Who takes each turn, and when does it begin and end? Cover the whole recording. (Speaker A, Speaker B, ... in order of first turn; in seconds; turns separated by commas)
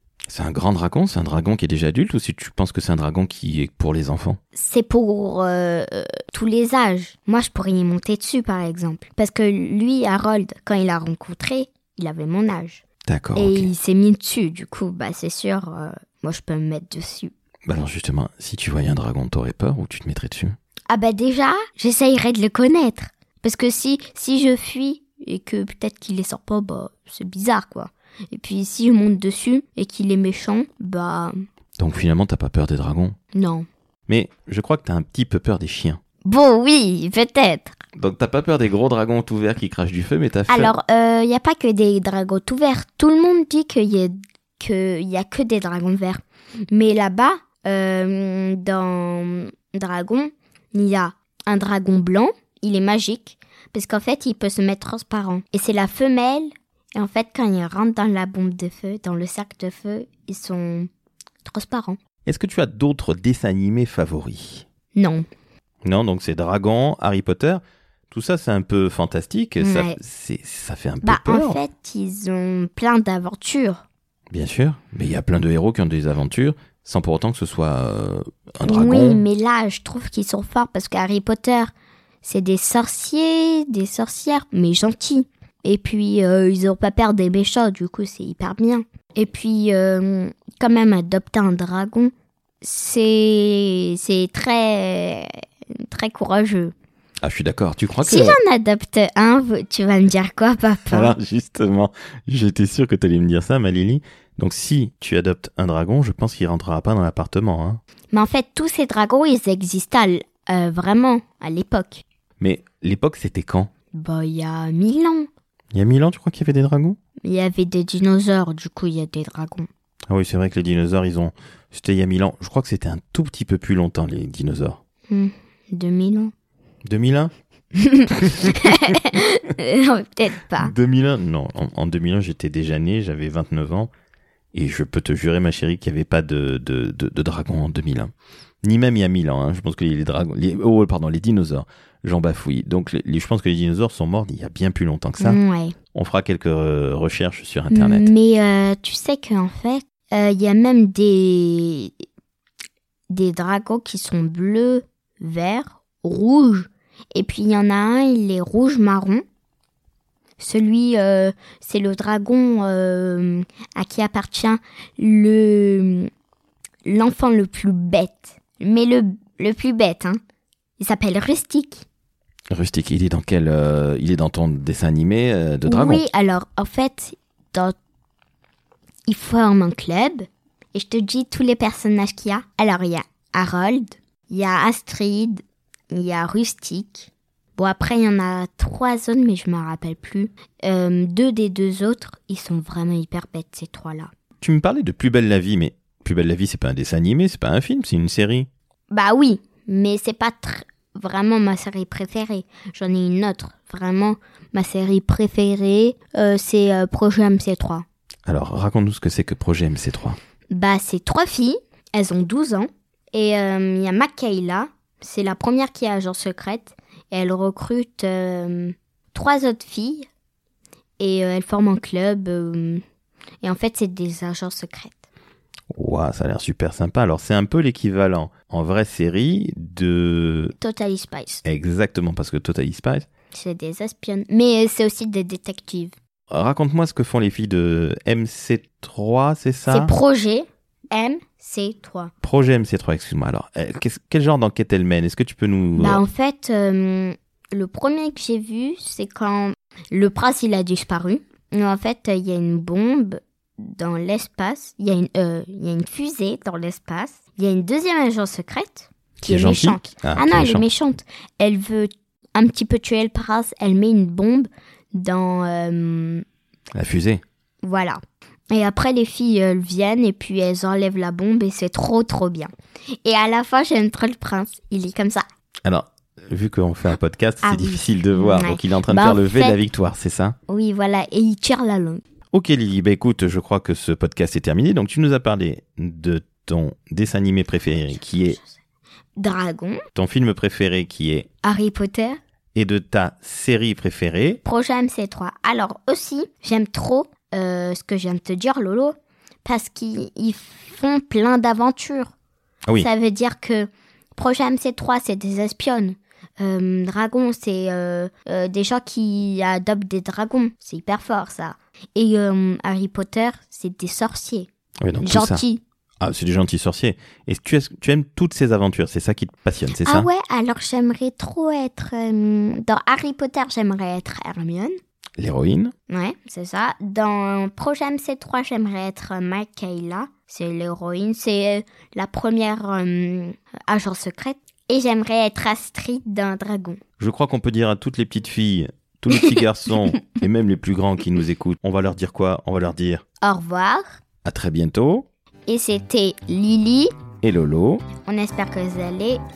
Speaker A: 0.3-4.4, Speaker B: 4.5-12.8, Speaker A: 13.1-13.7, Speaker B: 13.3-17.3, Speaker A: 17.7-20.6, Speaker B: 20.9-31.4, Speaker A: 31.8-33.1, Speaker B: 33.3-33.6, Speaker A: 34.1-36.0, Speaker B: 36.2-37.8, Speaker A: 38.0-40.7, Speaker B: 40.5-60.9, Speaker B: 61.4-62.0, Speaker A: 62.2-64.7, Speaker B: 64.9-65.2, Speaker A: 65.8-71.6, Speaker B: 69.6-70.0, Speaker B: 71.0-73.8, Speaker A: 74.3-79.2, Speaker B: 78.6-81.7, Speaker B: 82.2-95.3, Speaker B: 95.8-96.7, Speaker A: 97.2-98.4, Speaker B: 98.0-101.1, Speaker A: 100.9-107.8, Speaker B: 108.1-112.0, Speaker A: 112.4-113.7, Speaker B: 113.9-115.3, Speaker A: 115.7-117.0, Speaker B: 117.2-119.7, Speaker A: 120.1-124.8, Speaker B: 125.1-126.3, Speaker A: 126.8-127.3, Speaker B: 127.8-130.7, Speaker A: 130.6-133.9, Speaker A: 134.5-138.1, Speaker A: 138.6-145.4, Speaker B: 145.2-145.8, Speaker A: 145.9-148.1, Speaker B: 147.7-151.9, Speaker B: 153.1-159.2, Speaker B: 160.4-166.1, Speaker B: 166.8-170.2, Speaker B: 170.8-171.8, Speaker A: 172.5-176.0, Speaker B: 175.7-177.8, Speaker B: 179.1-185.4, Speaker B: 185.9-194.1, Speaker A: 194.4-198.5, Speaker B: 198.9-207.8, Speaker A: 208.2-210.2, Speaker B: 210.5-220.1, Speaker B: 221.0-222.8, Speaker B: 223.4-225.1, Speaker A: 225.7-230.5, Speaker B: 230.6-231.4, Speaker A: 231.4-233.1, Speaker B: 233.3-235.9, Speaker A: 236.3-239.9, Speaker B: 239.7-242.1, Speaker A: 242.2-246.0, Speaker B: 245.8-266.2, Speaker A: 259.2-260.6, Speaker A: 266.7-267.2, Speaker B: 267.6-268.0, Speaker B: 268.5-272.5, Speaker B: 273.0-275.2, Speaker A: 275.6-280.4, Speaker B: 277.4-279.6, Speaker B: 280.5-282.0, Speaker A: 282.3-288.4, Speaker B: 287.9-288.6, Speaker B: 289.2-289.8, Speaker A: 289.9-291.3, Speaker B: 291.4-292.2, Speaker A: 292.5-294.4, Speaker B: 294.4-302.1, Speaker B: 302.8-314.5, Speaker A: 314.8-315.4, Speaker B: 315.0-315.6, Speaker A: 316.0-320.1, Speaker B: 319.8-324.7, Speaker A: 325.2-325.7, Speaker B: 325.9-336.8, Speaker A: 337.0-343.0, Speaker B: 343.2-343.8, Speaker A: 344.2-345.1, Speaker B: 345.5-346.9, Speaker A: 347.2-347.8, Speaker B: 348.0-349.2